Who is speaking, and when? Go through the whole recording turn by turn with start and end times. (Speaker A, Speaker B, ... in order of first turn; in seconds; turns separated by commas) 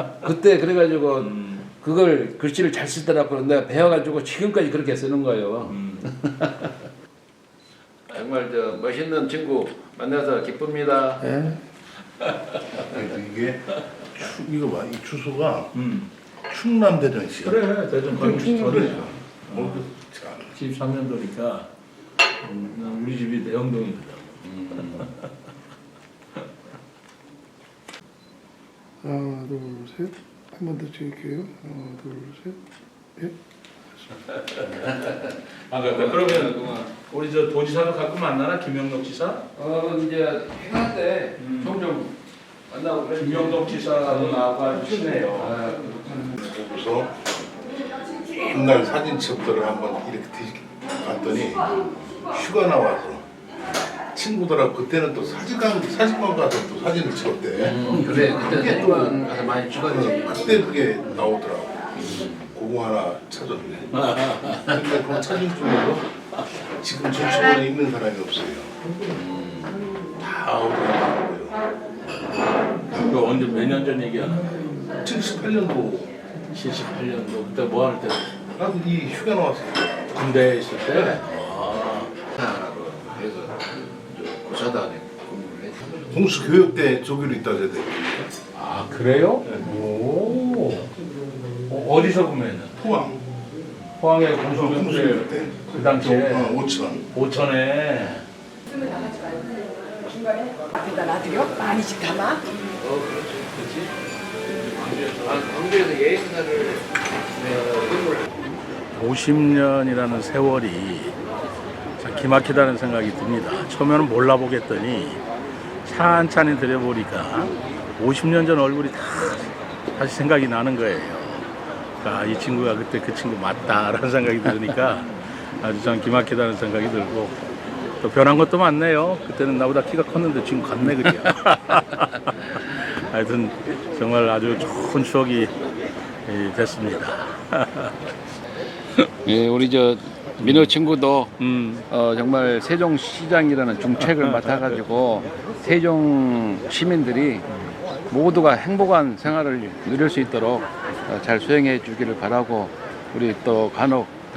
Speaker A: 0.2-6.8, Speaker B: 1.2-1.7, Speaker B: 5.7-6.1, Speaker A: 8.1-11.4, Speaker B: 12.3-12.6, Speaker C: 12.8-15.7, Speaker B: 15.7-16.1, Speaker C: 16.4-20.5, Speaker B: 17.4-19.9, Speaker B: 20.5-21.7, Speaker B: 22.4-25.2, Speaker A: 24.4-25.1, Speaker D: 29.0-32.6, Speaker B: 34.1-39.5, Speaker A: 34.7-35.3, Speaker A: 35.9-36.9, Speaker A: 39.5-42.2, Speaker B: 41.4-41.8, Speaker A: 42.7-46.4, Speaker B: 43.1-45.6, Speaker C: 46.4-47.1, Speaker C: 48.3-51.7, Speaker C: 52.2-53.2, Speaker C: 54.1-59.2, Speaker A: 57.5-60.9, Speaker B: 57.9-58.4, Speaker C: 59.9-61.9, Speaker A: 62.0-62.5, Speaker C: 62.4-66.1, Speaker B: 63.9-65.3, Speaker C: 66.6-68.8, Speaker A: 69.1-69.8, Speaker C: 70.2-71.6, Speaker B: 72.9-74.9, Speaker C: 75.0-76.1, Speaker B: 76.5-78.3, Speaker C: 78.5-80.0, Speaker B: 80.1-82.1, Speaker A: 82.2-86.1, Speaker C: 86.1-88.3, Speaker B: 88.5-90.9, Speaker C: 89.6-90.1, Speaker B: 91.7-92.8, Speaker C: 92.8-93.2, Speaker B: 93.9-98.2, Speaker C: 94.4-97.1, Speaker A: 98.8-99.3, Speaker A: 101.3-101.7, Speaker D: 101.8-102.2, Speaker A: 102.8-103.8, Speaker B: 103.6-103.9, Speaker B: 104.6-105.5, Speaker A: 105.2-108.5, Speaker B: 108.9-111.2, Speaker B: 112.0-115.2, Speaker B: 115.8-121.5, Speaker B: 122.0-127.5, Speaker B: 128.0-135.5, Speaker B: 136.2-138.0, Speaker A: 139.2-141.3, Speaker B: 140.4-140.7, Speaker B: 141.4-141.8, Speaker A: 141.9-147.5, Speaker B: 144.1-144.5, Speaker A: 148.1-154.1